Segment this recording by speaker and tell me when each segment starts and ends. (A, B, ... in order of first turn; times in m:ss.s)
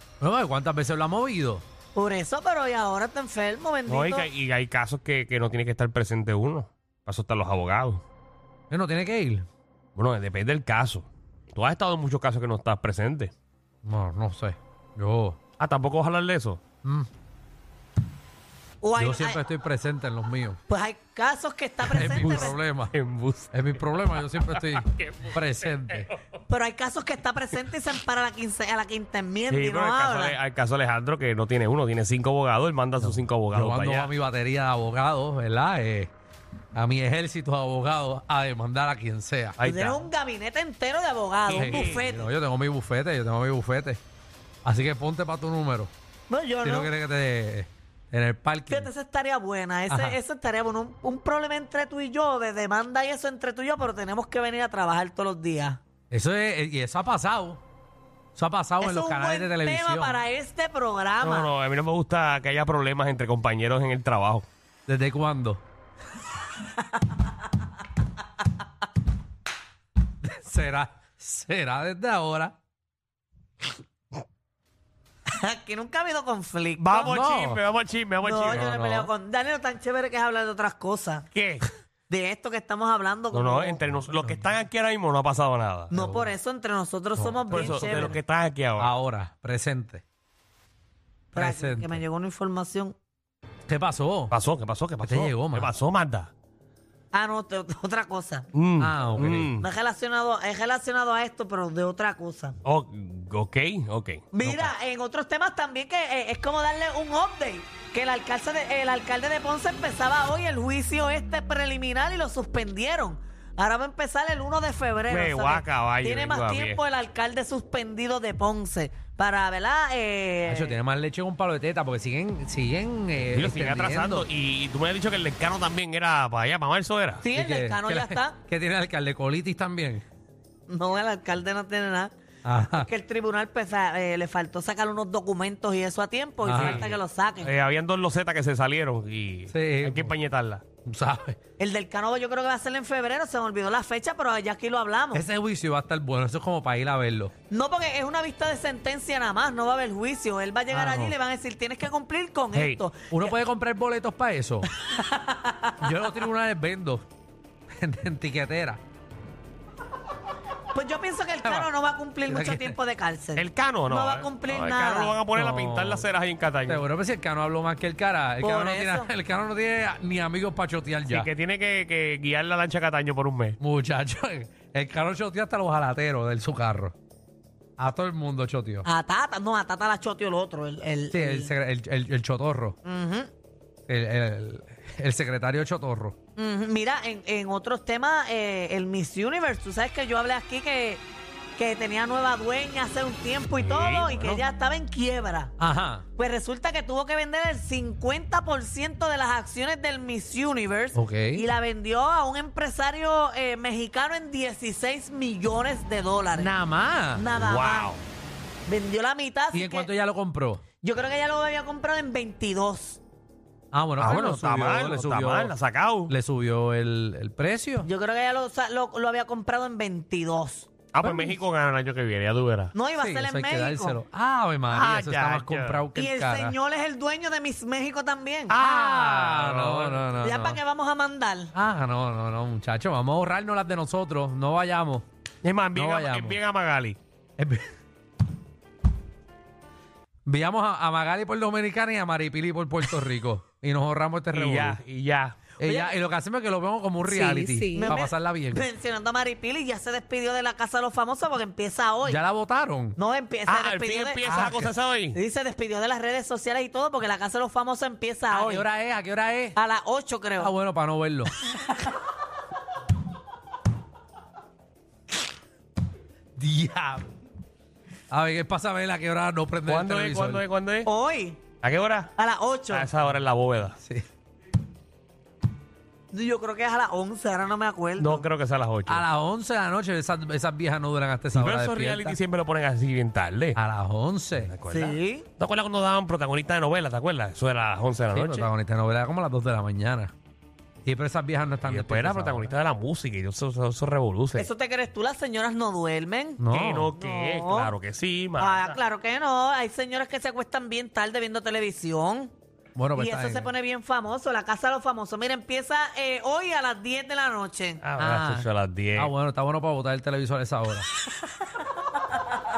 0:00.2-0:01.6 A
0:02.0-0:04.3 B
0:03.9-0:08.0 C
0:08.7-0:09.5 A
0:10.0-0:13.3 C
0:13.8-0:15.4 A
0:15.6-0:16.6 C
0:16.8-0:17.1 A
0:18.8-0:19.4 B
0:19.0-0:20.6 A
0:20.7-0:22.6 B
0:21.9-0:23.0 A
0:22.0-0:23.5 C
0:23.5-0:26.1 A
0:24.4-0:25.4 C
0:26.5-0:30.4 B
0:29.5-0:34.1 C
0:33.0-0:36.1 A
0:36.8-0:39.6 A
0:39.6-0:40.1 C
0:39.6-0:42.3 B
0:41.5-0:42.0 C
0:41.5-0:44.0 A
0:44.6-0:45.9 A
0:46.3-0:46.9 B
0:46.6-0:48.9 A
0:48.7-0:55.8 B
0:49.9-0:50.2 A
0:56.1-0:57.6 A
0:58.4-1:00.2 A
0:58.8-1:01.5 B
1:01.2-1:04.5 C
1:04.9-1:05.6 A
1:10.2-1:12.6 A
1:15.3-1:17.2 B
1:16.8-1:18.7 C
1:17.0-1:17.6 A
1:18.2-1:21.3 B
1:18.4-1:19.1 A
1:21.3-1:21.7 C
1:22.1-1:23.8 B
1:23.3-1:25.9 C
1:25.9-1:28.2 B
1:25.9-1:26.3 A
1:27.2-1:28.2 A
1:27.5-1:28.9 C
1:28.8-1:30.0 A
1:31.3-1:33.0 B
1:31.4-1:32.0 A
1:33.7-1:34.3 A
1:34.3-1:36.3 C
1:35.0-1:35.7 A
1:37.1-1:38.5 B
1:38.6-1:39.7 C
1:38.8-1:39.5 A
1:39.6-1:42.6 B
1:42.6-1:44.2 C
1:44.3-2:00.8 B
1:44.4-1:44.7 A
1:55.1-1:56.8 C
2:00.5-2:04.3 A
2:03.3-2:07.3 C
2:07.2-2:08.4 B
2:07.3-2:10.0 A
2:10.7-2:12.1 B
2:12.4-2:12.9 A
2:12.7-2:17.5 B
2:16.4-2:17.0 A
2:16.5-2:20.6 C
2:19.5-2:20.1 A
2:20.9-2:21.4 A
2:21.6-2:25.3 B
2:25.1-2:27.3 A
2:27.5-2:33.4 B
2:30.7-2:31.2 A
2:32.5-2:32.8 C
2:33.1-2:34.7 A
2:34.7-2:36.2 B
2:35.8-2:37.1 A
2:37.7-2:38.8 A
2:40.7-2:45.2 B
2:41.4-2:41.7 A
2:42.3-2:42.8 A
2:43.4-2:46.9 C
2:45.3-2:46.1 A
2:46.7-2:51.3 A
2:48.4-2:49.1 B
2:51.1-2:53.6 C
2:53.6-2:57.0 A
2:57.8-2:58.9 A
2:58.8-3:01.5 B
3:01.1-3:02.8 A
3:02.8-3:03.3 B
3:03.9-3:06.2 A
3:06.4-3:11.0 B
3:11.6-3:15.5 B
3:13.6-3:14.4 C
3:15.6-3:16.0 A
3:16.2-3:26.5 B
3:20.9-3:21.5 A
3:26.3-3:27.3 A
3:27.1-3:27.9 B
3:27.4-3:28.1 C
3:28.7-3:29.9 B
3:29.5-3:30.6 A
3:30.8-3:33.0 B
3:33.7-3:35.5 A
3:34.0-3:36.1 C
3:36.1-3:37.9 A
3:37.8-3:40.7 B
3:40.9-3:42.7 C
3:42.7-3:44.0 B
3:43.0-3:46.6 A
3:44.7-3:45.9 C
3:45.9-3:48.6 B
3:48.5-3:50.1 C
3:48.6-3:50.6 A
3:50.2-3:51.5 B
3:51.5-3:55.1 A
3:55.4-3:57.0 C
3:55.8-3:56.4 A
3:57.4-3:57.7 A
4:00.3-4:04.8 A
4:04.3-4:05.4 C
4:05.6-4:08.7 A
4:05.6-4:06.0 B
4:07.0-4:12.2 B
4:12.0-4:13.0 A
4:13.0-4:14.6 B
4:13.5-4:15.2 C
4:14.3-4:14.7 A
4:15.1-4:18.7 B
4:18.3-4:19.6 A
4:19.5-4:20.5 B
4:20.4-4:21.3 A
4:26.4-4:27.1 A
4:28.1-4:30.4 A
4:29.7-4:30.9 C
4:30.8-4:31.4 B
4:31.6-4:32.1 C
4:32.2-4:32.9 B
4:32.7-4:33.8 C
4:33.8-4:34.1 A
4:36.1-4:38.3 B
4:38.0-4:39.0 C
4:38.9-4:42.2 A
4:41.3-4:43.6 C
4:43.6-4:44.5 A
4:44.4-4:48.5 C
4:44.7-4:45.3 B
4:48.1-4:50.1 A
4:50.8-4:52.5 A
4:51.6-4:54.5 C
4:54.4-4:56.4 B
4:56.4-4:56.9 A
4:56.5-4:58.8 C
4:57.0-4:57.7 B
4:58.4-5:02.3 B
5:02.8-5:03.5 A
5:03.0-5:07.8 B
5:07.8-5:09.1 C
5:08.0-5:10.9 A